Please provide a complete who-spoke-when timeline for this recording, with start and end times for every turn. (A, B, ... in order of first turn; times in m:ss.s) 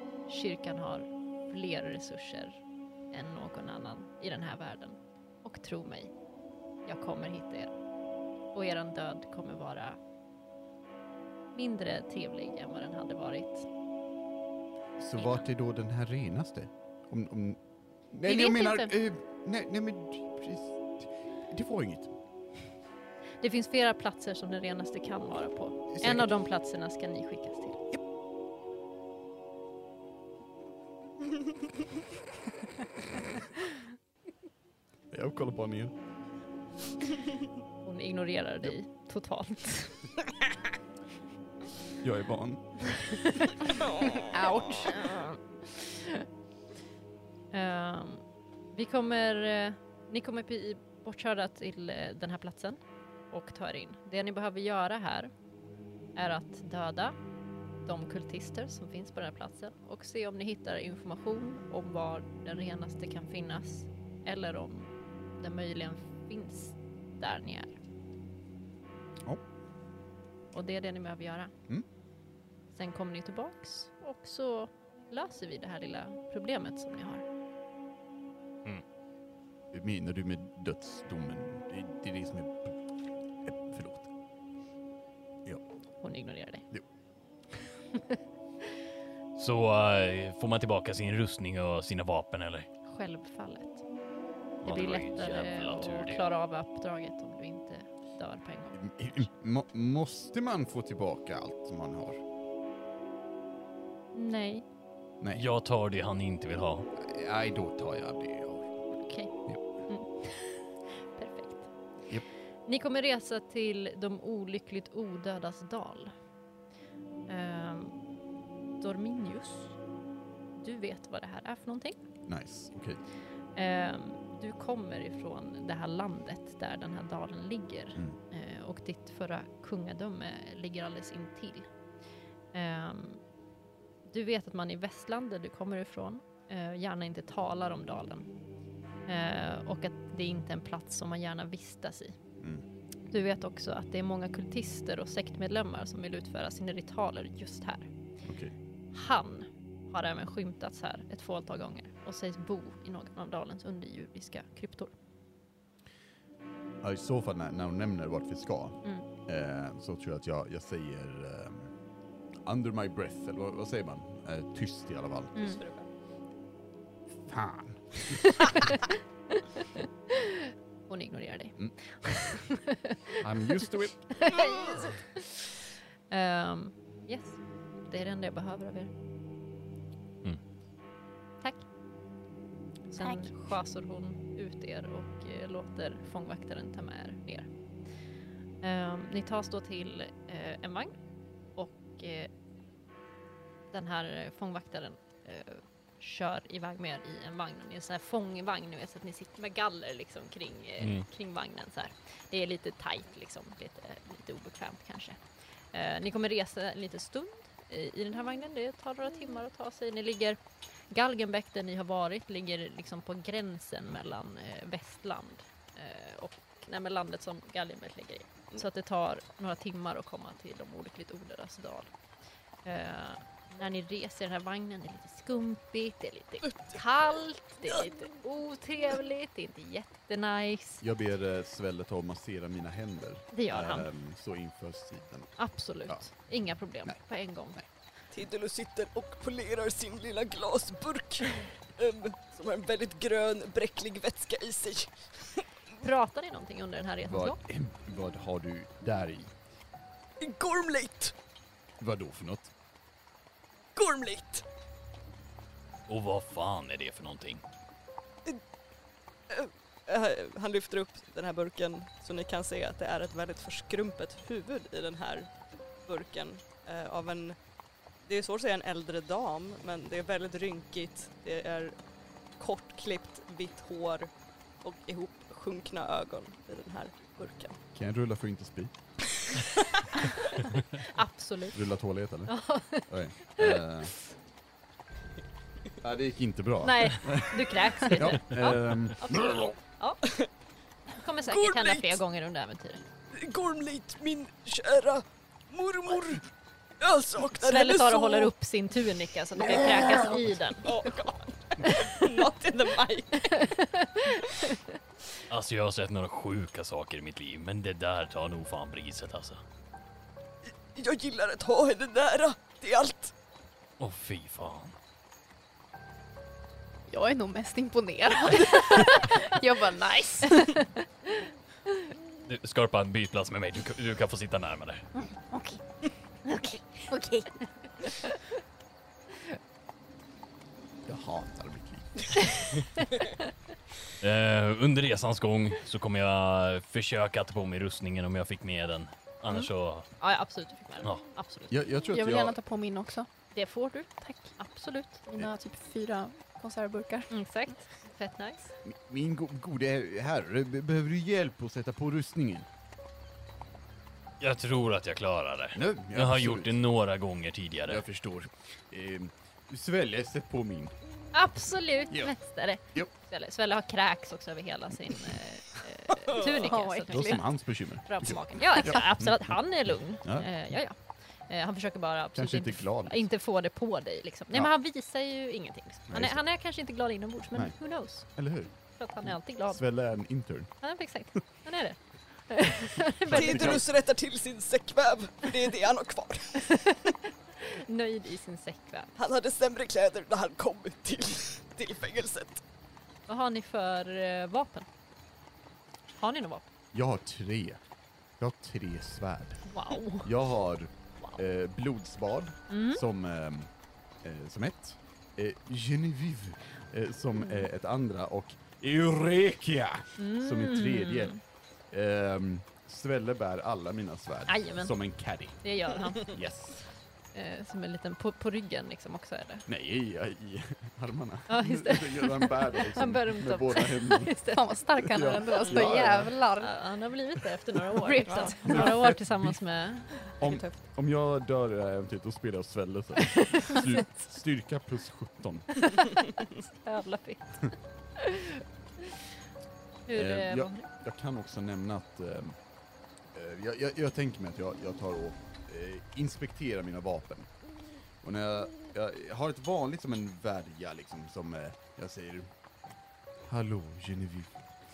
0:00.3-0:06.1 A
0:06.8-0:07.7 A
0:08.5-0:10.0 A
0:11.5-0:13.7 A
0:15.0-0:17.6 B
0:15.2-0:15.4 A
0:18.1-0:22.1 B
0:18.2-0:18.9 A
0:23.4-0:27.8 A
0:25.9-0:26.3 B
0:35.1-0:35.9 B
0:37.8-0:40.1 A
0:42.0-0:43.0 B
0:42.9-0:43.5 A
0:43.9-0:44.2 C
0:44.3-0:45.0 D
0:44.7-0:46.2 A
0:47.5-0:55.3 A
0:56.2-0:57.2 A
0:57.8-1:07.8 A
1:10.5-1:11.5 A
1:12.7-1:17.2 A
1:19.7-1:22.8 B
1:23.4-1:24.1 B
1:26.0-1:26.7 A
1:29.4-1:32.7 E
1:32.8-1:33.8 A
1:34.6-1:36.2 E
1:34.6-1:38.9 A
1:38.7-1:42.2 B
1:44.1-1:44.6 A
1:45.3-1:46.9 E
1:47.0-1:48.7 B
1:49.0-1:49.3 A
1:49.9-1:51.7 A
1:52.7-1:56.1 A
1:57.3-1:58.0 A
1:58.8-1:59.8 A
2:00.5-2:02.0 A
2:02.2-2:03.0 B
2:03.5-2:11.7 A
2:12.5-2:13.2 A
2:14.0-2:18.3 A
2:19.1-2:22.2 A
2:23.1-2:27.9 A
2:28.2-2:28.5 B
2:28.9-2:34.9 A
2:36.8-2:41.7 B
2:42.4-2:45.3 B
2:45.4-2:45.9 C
2:47.2-2:48.6 B
2:48.3-2:55.4 A
2:53.2-2:54.2 B
2:54.4-2:54.7 C
2:56.1-2:58.9 A
3:02.9-3:07.5 A
3:03.0-3:03.3 D
3:08.6-3:11.0 A
3:11.6-3:12.3 A
3:13.7-3:30.4 A
3:20.8-3:21.1 E
3:30.9-3:41.9 A
3:42.6-3:50.8 A
3:50.8-3:57.0 B
3:53.3-3:53.9 A
3:55.4-3:57.6 A
3:58.1-4:05.4 C
4:05.8-4:07.4 A
4:07.0-4:09.3 B
4:10.2-4:11.1 C
4:11.8-4:12.5 B
4:13.7-4:14.4 C
4:15.9-4:17.4 E
4:19.3-4:25.3 C
4:25.8-4:27.4 C
4:28.1-4:31.7 C
4:32.4-4:34.1 C
4:34.6-4:37.6 C
4:37.7-4:38.7 B
4:39.3-4:39.8 C
4:40.8-4:41.6 A
4:41.5-4:43.9 B
4:42.3-4:43.6 A
4:45.8-4:49.5 B
4:46.6-4:50.0 A
4:50.9-4:52.8 A
4:51.2-4:52.0 C
4:53.1-4:56.3 C
4:56.8-4:58.3 C
4:57.4-5:02.1 A
5:00.6-5:03.5 C
5:03.3-5:04.7 A
5:05.3-5:09.4 E
5:10.7-5:13.1 C
5:13.8-5:14.7 E
5:16.9-5:20.6 D
5:22.3-5:24.9 E
5:25.0-5:25.6 D
5:26.2-5:27.3 D
5:30.8-5:32.4 B
5:34.0-5:39.9 E
5:39.3-5:41.6 A
5:41.5-5:42.4 B
5:41.9-5:43.1 D
5:43.3-5:45.0 A
5:44.0-5:44.4 D
5:44.9-5:47.1 D
5:47.1-5:48.5 A
5:48.6-5:52.5 B
5:54.2-5:57.8 E
5:55.5-5:56.6 B
5:57.7-6:00.7 B
6:01.1-6:07.3 A
6:06.3-6:07.2 D
6:06.9-6:09.4 B
6:07.8-6:18.1 A
6:12.1-6:13.1 B
6:15.9-6:16.2 B
6:18.1-6:20.5 B
6:18.7-6:19.6 A
6:20.6-6:23.6 A
6:23.1-6:23.6 B
6:23.1-6:26.5 C
6:26.4-6:28.9 A
6:29.0-6:32.4 C
6:33.1-6:34.7 A
6:35.9-6:36.5 A
6:36.7-6:37.6 B
6:38.2-6:39.5 B
6:39.5-6:40.1 A
6:40.0-6:43.5 B
6:42.5-6:42.8 A
6:44.0-6:51.1 B
6:50.0-6:51.2 A
6:51.7-6:55.4 B
6:54.3-6:54.7 A
6:55.4-6:56.2 A
6:55.9-6:56.6 B
6:57.1-6:59.4 A
6:59.5-7:04.1 B
7:01.3-7:04.6 A
7:04.3-7:06.6 D
7:04.8-7:06.1 B
7:05.5-7:05.7 A
7:06.4-7:10.1 A
7:07.7-7:08.7 D
7:08.1-7:08.4 C
7:08.4-7:09.4 B
7:10.2-7:10.5 C
7:10.2-7:15.5 B
7:13.1-7:13.8 A
7:15.6-7:19.0 A
7:19.9-7:20.7 A
7:19.9-7:22.4 B
7:23.1-7:27.3 B
7:28.0-7:32.3 B
7:33.3-7:34.3 B